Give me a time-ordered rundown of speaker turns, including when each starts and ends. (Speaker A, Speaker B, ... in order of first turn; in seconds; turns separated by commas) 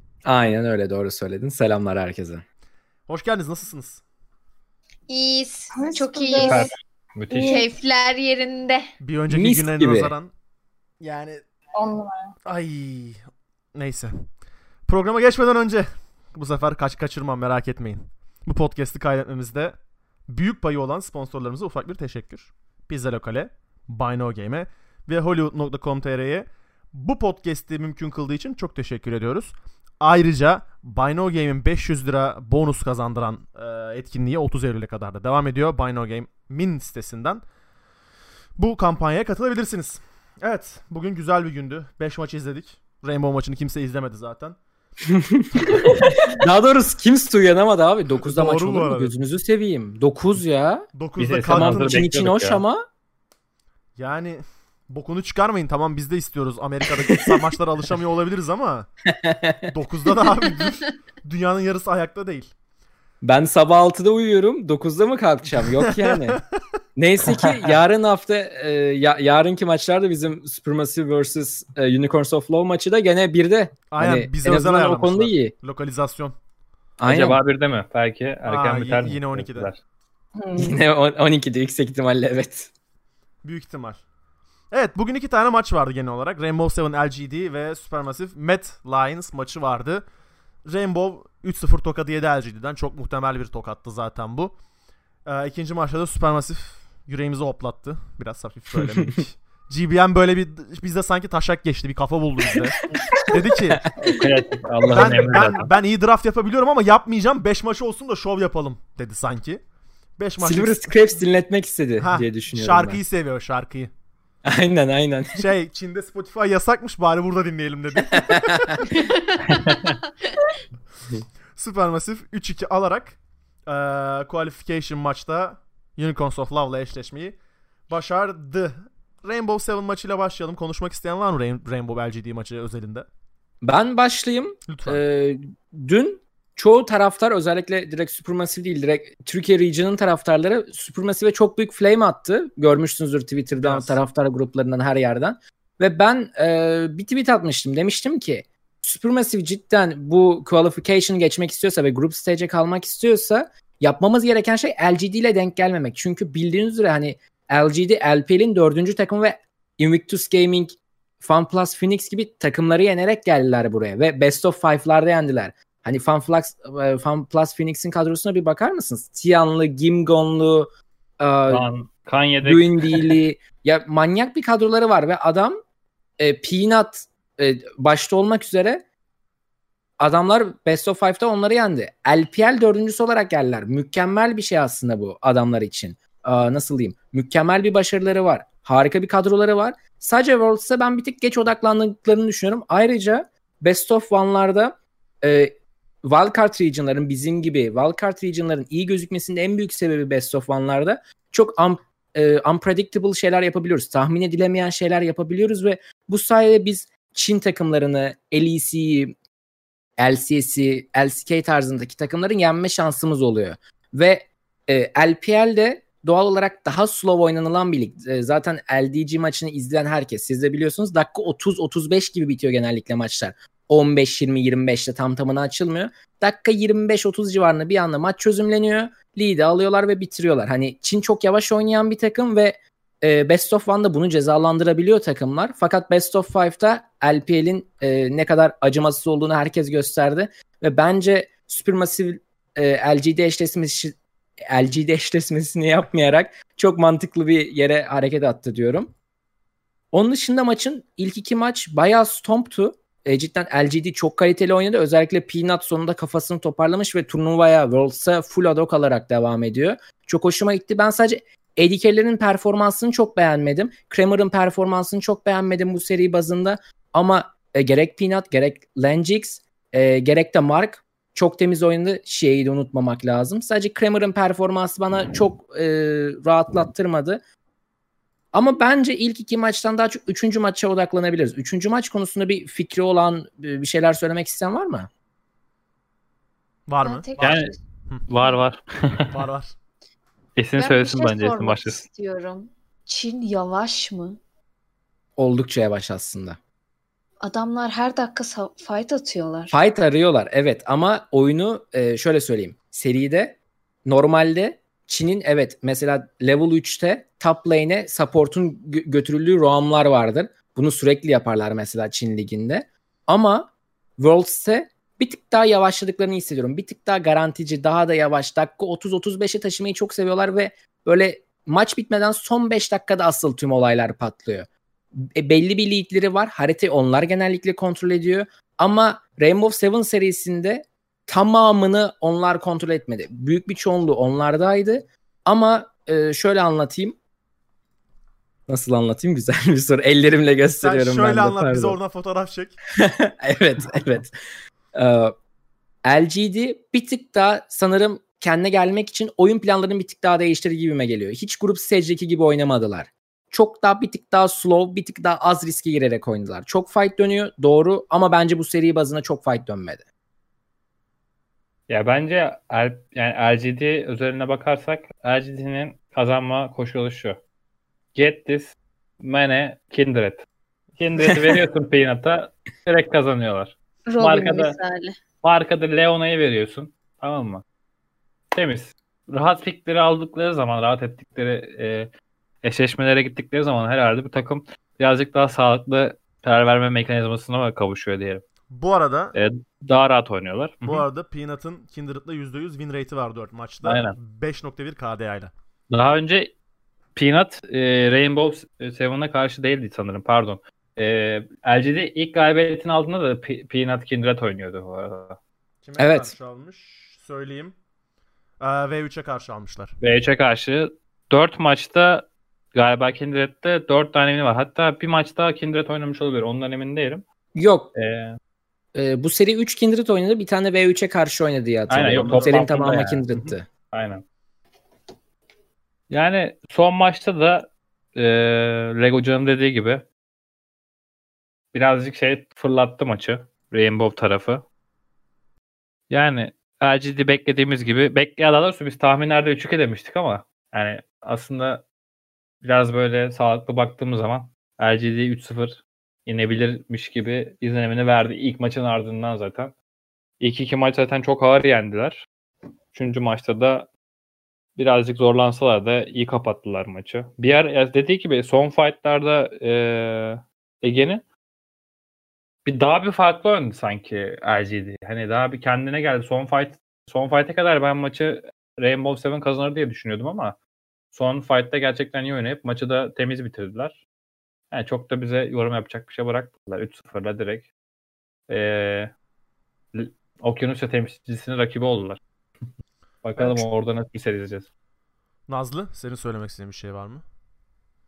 Speaker A: 0.2-2.4, Speaker B: 3.1-4.0, Speaker C: 5.1-6.7, Speaker D: 5.7-6.7, Speaker E: 6.3-7.6, Speaker D: 7.3-7.7, Speaker C: 7.5-8.8, Speaker B: 9.0-10.3, Speaker A: 9.3-10.1, Speaker B: 11.0-11.4, Speaker D: 11.7-12.3, Speaker B: 12.4-14.3, Speaker B: 14.8-37.4, Speaker B: 38.5-44.6, Speaker A: 45.1-50.9, Speaker B: 48.2-49.1, Speaker B: 50.9-52.0, Speaker E: 51.2-52.6, Speaker A: 51.5-52.8, Speaker B: 54.0-58.9, Speaker A: 57.1-57.4, Speaker A: 59.0-59.7, Speaker B: 59.7-62.5, Speaker A: 63.2-66.4, Speaker B: 66.0-66.6, Speaker A: 67.0-75.5, Speaker B: 73.9-76.3, Speaker A: 77.0-77.4, Speaker E: 77.0-79.8, Speaker B: 78.5-79.7, Speaker D: 80.4-80.7, Speaker A: 80.5-82.7, Speaker B: 83.4-84.0, Speaker B: 84.7-90.0, Speaker B: 90.6-94.6, Speaker B: 95.2-103.8, Speaker A: 103.1-103.9, Speaker E: 104.0-105.6, Speaker A: 104.8-105.7, Speaker B: 104.9-109.6, Speaker B: 110.2-110.9, Speaker A: 110.4-113.0, Speaker B: 112.0-113.9, Speaker A: 114.4-115.4, Speaker B: 115.3-118.9, Speaker A: 118.1-118.7, Speaker C: 118.9-120.0, Speaker E: 119.5-119.9, Speaker B: 121.5-133.1, Speaker A: 133.6-171.6, Speaker B: 134.7-135.0, Speaker B: 143.6-144.0, Speaker E: 171.5-173.2, Speaker A: 172.4-175.6, Speaker A: 176.2-178.8, Speaker A: 180.0-209.1, Speaker A: 210.0-248.9, Speaker A: 249.9-277.2, Speaker A: 278.3-284.9, Speaker B: 286.7-288.1, Speaker C: 286.8-287.6, Speaker E: 287.2-287.5, Speaker E: 288.1-289.1, Speaker B: 289.1-289.5, Speaker E: 290.4-291.8, Speaker C: 290.6-294.2, Speaker A: 295.2-296.4, Speaker C: 297.2-299.5, Speaker A: 299.5-337.0, Speaker A: 338.5-341.8, Speaker B: 340.6-342.6, Speaker A: 342.7-344.1, Speaker A: 344.7-345.1, Speaker A: 345.8-359.8, Speaker E: 361.7-367.2, Speaker E: 367.9-370.2, Speaker E: 370.8-374.6, Speaker A: 371.0-371.4, Speaker C: 373.9-375.0, Speaker E: 375.2-377.4, Speaker E: 378.3-381.9, Speaker E: 382.4-388.2, Speaker B: 388.5-389.1, Speaker E: 389.1-390.8, Speaker B: 390.6-395.3, Speaker E: 393.6-393.9, Speaker E: 395.7-396.3, Speaker E: 396.9-405.2, Speaker B: 405.6-407.5, Speaker A: 405.8-406.1, Speaker B: 408.4-409.8, Speaker E: 409.8-417.0, Speaker A: 417.3-417.7, Speaker E: 417.7-418.2, Speaker A: 418.7-423.5, Speaker E: 421.7-424.0, Speaker B: 421.9-422.3, Speaker E: 425.9-429.8, Speaker E: 431.5-434.4, Speaker E: 435.9-441.6, Speaker E: 442.4-449.5, Speaker E: 450.2-452.1, Speaker E: 452.7-453.7, Speaker E: 454.6-461.0, Speaker E: 462.4-470.4, Speaker E: 470.9-473.8, Speaker E: 474.5-477.5, Speaker E: 478.3-478.9, Speaker E: 479.7-482.0, Speaker E: 483.0-484.5, Speaker B: 485.3-487.0